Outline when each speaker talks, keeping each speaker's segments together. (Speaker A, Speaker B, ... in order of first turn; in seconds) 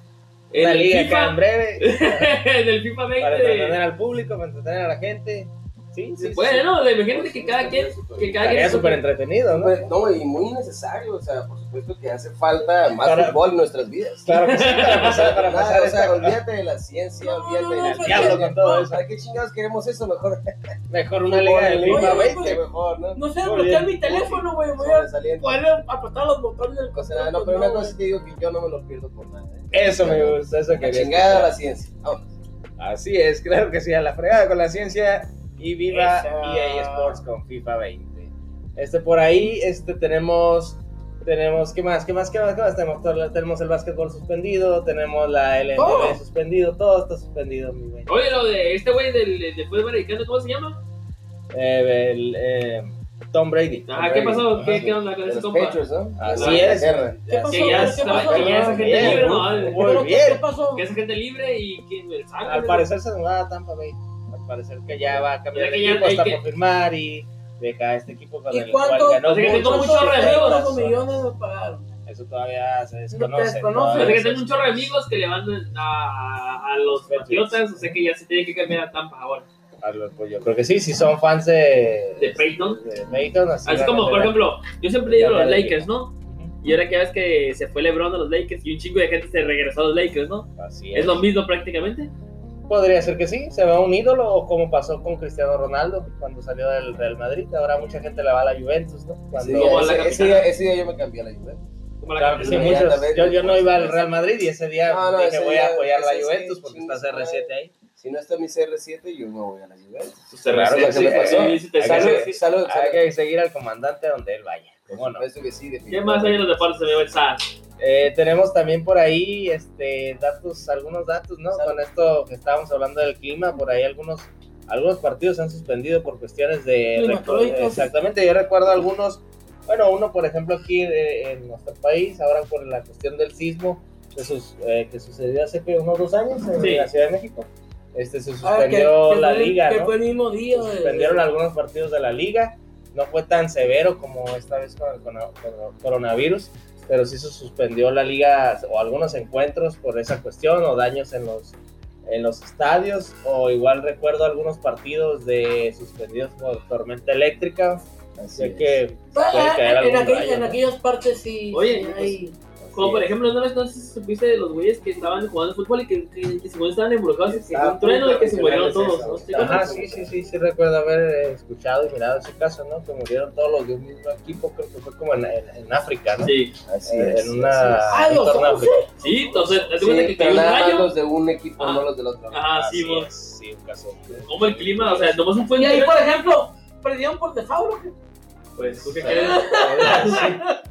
Speaker A: 0.5-3.8, 6.2-9.0, 14.4-15.3, 48.1-50.8, 53.9-56.9, 57.5-59.8, 60.7-62.9, 65.5-66.4, 69.2-70.7, 73.9-79.5, 82.2-82.8, 83.7-92.1, 99.5-100.5, 102.0-103.0, 110.3-112.4, 115.9-117.5, 136.6-136.9, 161.5-162.2, 162.7-169.8, 176.2-176.6, 179.0-180.9, 181.6-183.1, 184.2-186.2, 188.6-190.2
Speaker B: 0.6-2.4, 3.2-6.7, 8.4-9.8, 13.0-13.4, 14.2-16.4, 17.8-19.0, 20.9-22.6, 23.4-24.0, 29.7-31.5, 32.8-48.2, 51.5-54.0, 54.5-54.9, 56.2-60.4, 62.4-71.3, 72.1-74.9, 76.8-78.0, 79.8-84.4, 85.0-86.5, 90.6-91.2, 92.7-100.2, 102.2-107.7, 110.5-115.3, 117.8-140.0, 140.5-160.6, 169.3-178.9, 182.5-185.3, 188.7-190.5
Speaker C: 7.1-8.8, 9.5-20.7, 21.3-23.2, 24.1-25.6, 26.9-32.3, 53.9-59.5, 99.3-101.7, 102.3-104.1, 104.9-113.0, 115.1-116.7, 121.5-121.8, 158.2-158.8, 162.6-163.0, 167.3-170.2, 176.7-178.2, 179.3-182.4
Speaker D: 17.2-18.9, 21.9-22.6, 23.1-28.0, 35.9-37.2, 45.8-46.2, 57.3-59.1, 59.7-60.9, 68.5-71.8, 73.1-74.2, 127.0-127.9, 138.4-141.2, 159.1-162.4, 177.9-178.9, 185.6-187.9, 189.0-190.6